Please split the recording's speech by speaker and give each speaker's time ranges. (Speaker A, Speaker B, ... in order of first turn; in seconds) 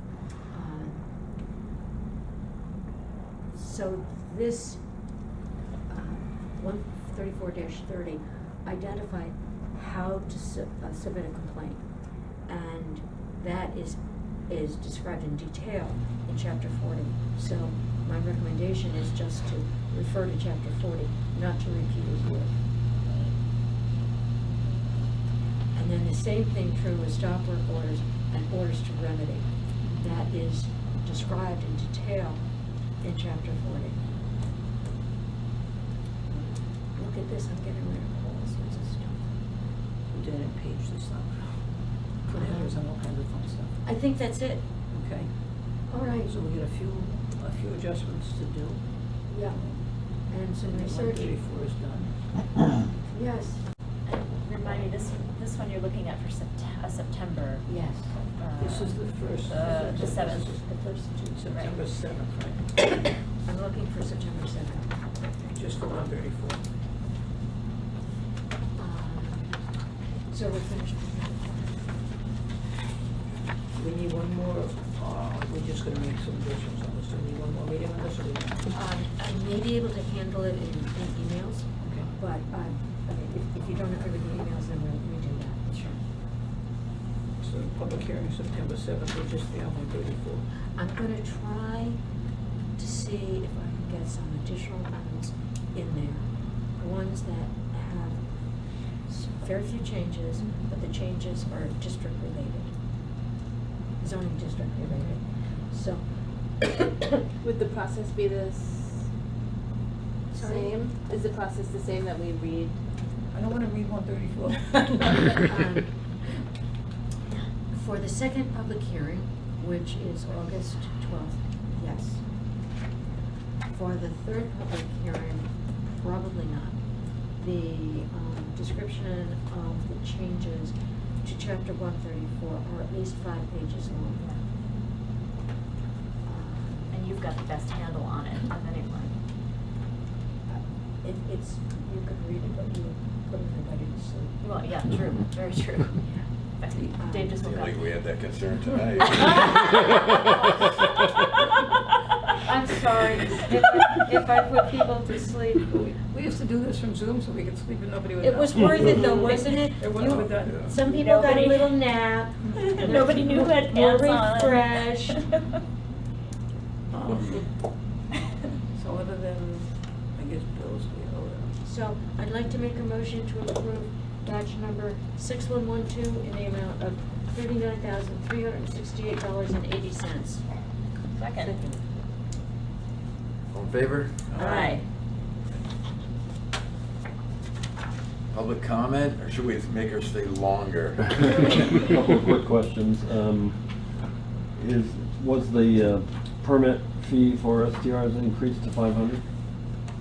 Speaker A: 0.5-1.1, 3.5-4.8, 5.9-11.9, 12.5-22.6, 25.7-32.5, 33.0-34.0, 36.9-39.3, 42.3-42.8, 43.8-44.7, 45.9-46.4, 49.3-51.4, 53.1-53.6, 57.6-58.2, 60.4-61.5, 63.4-65.0, 68.8-69.7, 70.3-71.9, 78.7-86.0, 90.8-92.0, 92.8-98.3, 99.1-102.7, 104.0-106.9, 110.3-110.8, 115.5-116.0, 117.7-122.2, 123.7-126.8, 127.4-134.2, 136.2-137.0, 140.5-144.4, 147.0-147.4, 152.4-155.7, 158.2-165.2, 171.6-180.4
Speaker B: 23.0-23.3, 29.8-30.2, 40.1-41.7, 42.2-43.8, 44.9-45.5, 46.1-48.9, 49.5-49.9, 50.6-52.2, 58.6-60.7, 61.3-62.7, 65.3-66.7, 73.7-78.7, 81.8-82.1, 87.4-90.5, 104.8-105.2, 113.3-115.4, 155.7-160.7, 162.5-163.2, 166.9-167.5, 168.7-171.6, 181.4-181.8
Speaker C: 54.1-57.6, 58.4-58.9, 59.5-60.5, 136.9-139.1, 144.4-146.0, 146.6-147.7, 160.9-161.8, 162.7-165.5, 181.2-181.5, 184.3-184.8
Speaker D: 107.4-109.1, 110.3-112.8, 149.2-150.0
Speaker E: 147.4-149.5, 160.0-160.8, 183.5-184.2, 188.3-191.5
Speaker F: 191.3-193.6, 194.6-199.2